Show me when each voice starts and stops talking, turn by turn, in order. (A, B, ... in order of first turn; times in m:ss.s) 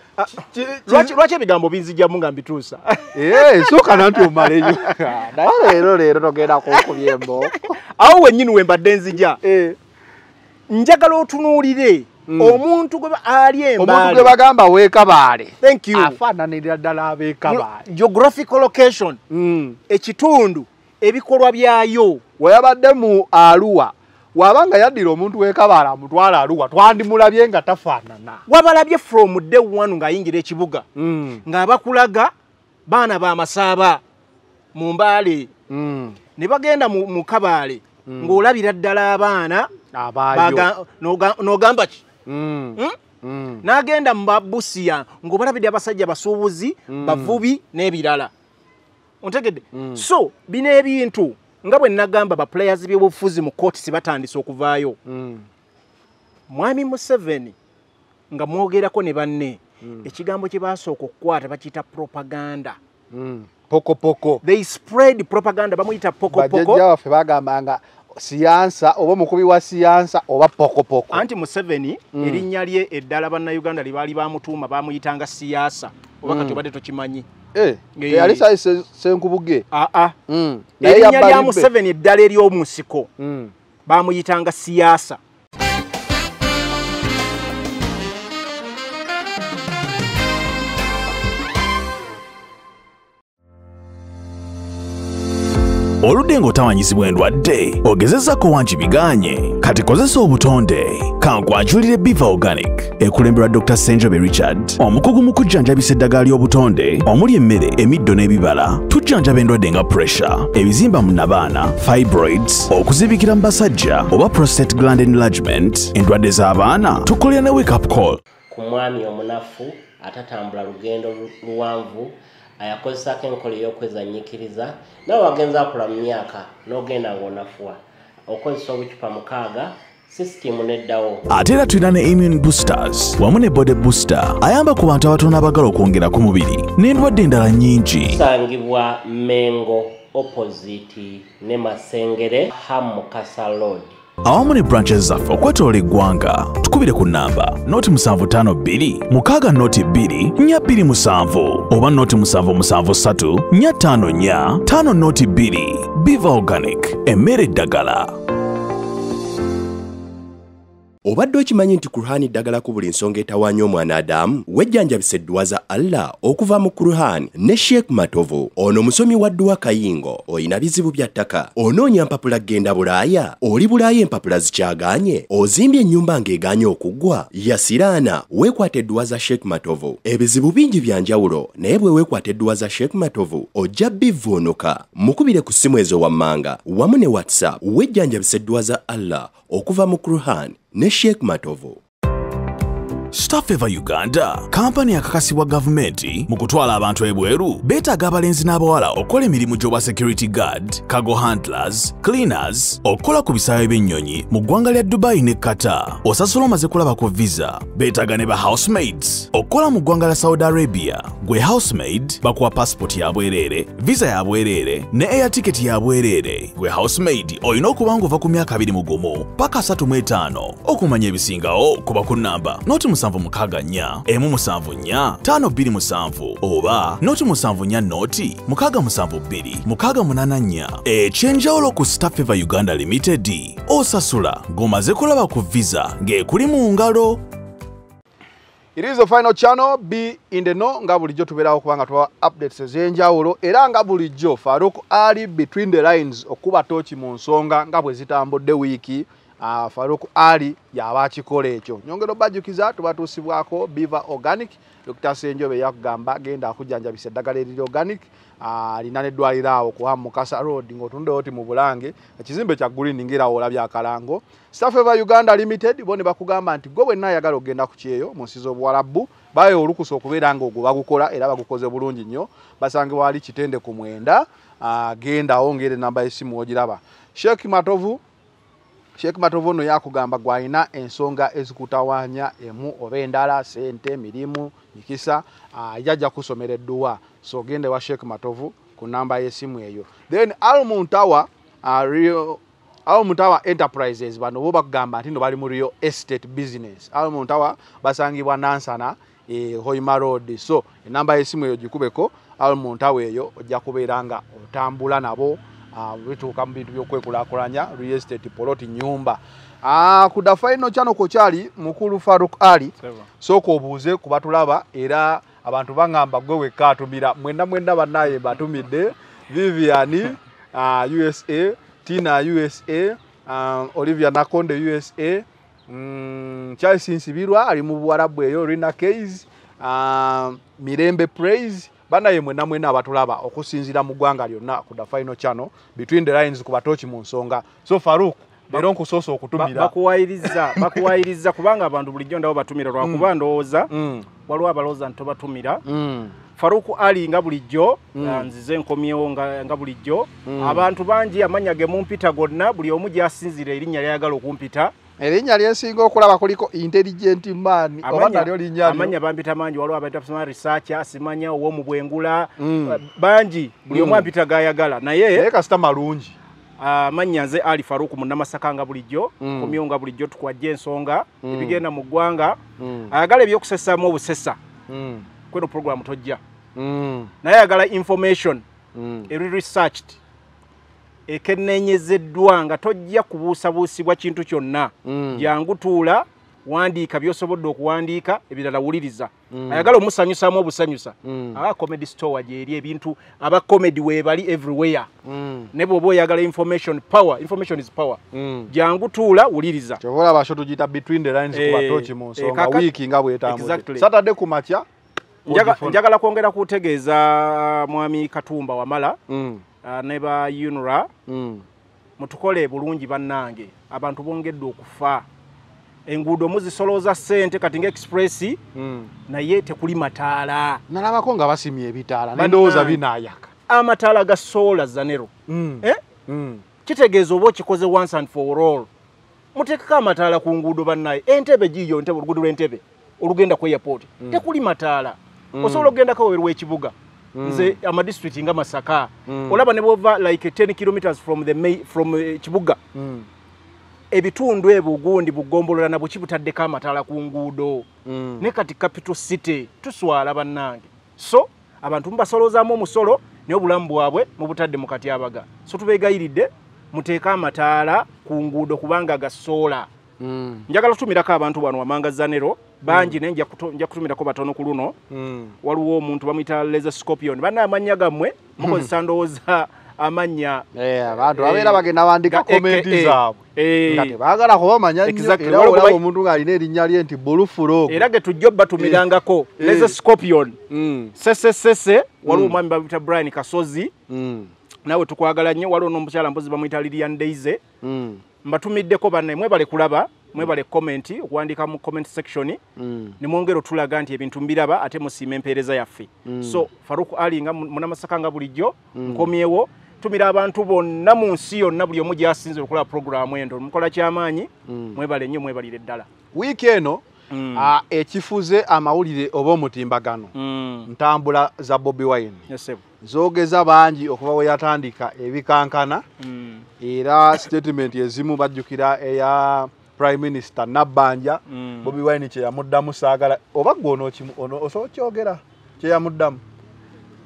0:00.2-0:04.8 A
0:00.4-0:01.2 B
0:03.1-0:07.8 B
0:06.7-0:09.4 A
0:09.4-0:09.8 B
0:10.7-0:14.4 A
0:12.3-0:12.6 B
0:13.8-0:17.9 B
0:15.6-0:16.2 A
0:17.5-0:19.2 A
0:19.3-0:19.8 B
0:19.9-0:22.2 A
0:22.4-0:28.4 B
0:28.5-0:30.9 A
0:31.0-0:31.4 B
0:31.4-0:32.3 A
0:32.9-0:34.0 A
0:34.8-0:35.5 A
0:35.7-0:36.2 B
0:36.4-0:39.7 A
0:38.1-0:38.4 B
0:39.9-0:40.7 B
0:40.3-0:42.0 A
0:42.3-0:43.6 B
0:43.6-0:48.3 A
0:46.9-0:47.4 B
0:49.2-0:55.0 A
0:49.7-0:50.1 B
0:55.1-0:55.5 B
0:56.5-0:57.6 A
0:58.3-1:02.8 A
0:59.8-1:00.1 B
1:03.1-1:04.4 B
1:04.4-1:06.8 A
1:06.3-1:11.3 B
1:11.1-1:17.3 A
1:12.2-1:12.5 B
1:16.2-1:16.6 B
1:17.5-1:19.7 B
1:18.0-1:18.5 A
1:19.7-1:20.2 A
1:20.3-1:21.7 B
1:20.8-1:23.1 A
1:23.2-1:23.5 B
1:23.9-1:25.2 A
1:36.0-1:58.2 C
1:58.5-2:11.3 D
2:11.3-2:18.2 C
2:18.1-2:24.0 D
2:24.2-2:38.2 C
2:41.1-3:11.8 E
3:13.1-3:57.2 C
3:58.8-4:38.0 B
4:39.0-5:39.7 B
5:39.4-5:43.7 A
5:40.2-5:40.9 B
5:42.8-5:43.1 B
5:43.7-5:44.1 B
5:44.3-5:45.6 A
5:45.6-5:46.2 B
5:46.4-5:54.7 A
5:47.9-5:48.3 B
5:50.2-5:50.7 B
5:55.0-5:59.0 B
5:57.8-6:05.3 A
6:02.4-6:02.8 B
6:03.7-6:04.1 B
6:05.2-6:06.2 B
6:06.6-6:12.4 A
6:09.2-6:09.6 B
6:11.2-6:11.6 B
6:12.6-6:12.9 B
6:12.9-6:14.4 A
6:14.7-6:15.1 B
6:15.3-6:16.2 A
6:16.6-6:17.1 B
6:17.2-6:18.4 A
6:18.8-6:19.1 B
6:19.1-6:20.0 A
6:21.1-6:34.9 A
6:24.8-6:25.3 B
6:29.3-6:29.7 B
6:31.0-6:31.4 B
6:35.0-6:35.5 B
6:35.5-6:39.8 A
6:38.1-6:38.5 B
6:39.8-6:44.6 B
6:41.3-6:42.7 A
6:43.3-6:43.9 A
6:45.3-6:45.8 B
6:45.3-6:49.0 A
6:49.1-6:49.4 B
6:49.6-6:50.9 A
6:51.1-6:51.4 B
6:52.0-6:55.1 A
6:55.9-6:58.4 A
6:58.6-6:58.9 B
6:59.1-7:00.6 A
7:00.7-7:03.3 B
7:02.2-7:02.8 A
7:03.5-7:05.1 A
7:05.3-7:06.4 B
7:06.6-7:08.7 A
7:09.4-7:22.6 A
7:15.3-7:15.7 B
7:17.2-7:17.6 B
7:19.1-7:19.5 B
7:22.7-7:23.1 B
7:23.9-7:27.7 A
7:27.8-7:28.3 B
7:28.2-7:39.7 A
7:40.0-7:40.5 B
7:40.5-7:44.8 A
7:42.7-7:43.0 B
7:44.9-7:45.4 B
7:45.4-7:50.4 A
7:48.4-7:48.7 B
7:50.5-7:57.9 B
7:51.2-7:54.0 A
7:54.8-7:55.8 A
7:57.7-8:00.4 A
7:58.6-7:58.8 B
7:59.4-7:59.8 B
8:00.5-8:00.9 B
8:01.0-8:03.7 A
8:02.0-8:02.4 B
8:03.9-8:04.3 B
8:04.7-8:07.4 A
8:07.6-8:08.0 B
8:08.2-8:12.4 A
8:12.6-8:13.0 B
8:13.0-8:25.9 A
8:16.1-8:16.4 B
8:18.7-8:19.1 B
8:24.5-8:24.8 B
8:26.1-8:26.8 B
8:27.1-8:27.6 A
8:27.4-8:30.1 B
8:30.2-8:30.7 A
8:30.7-8:32.2 B
8:32.3-8:32.6 A
8:32.8-8:35.8 B
8:36.0-8:36.5 A
8:36.6-8:46.2 B
8:41.3-8:41.7 A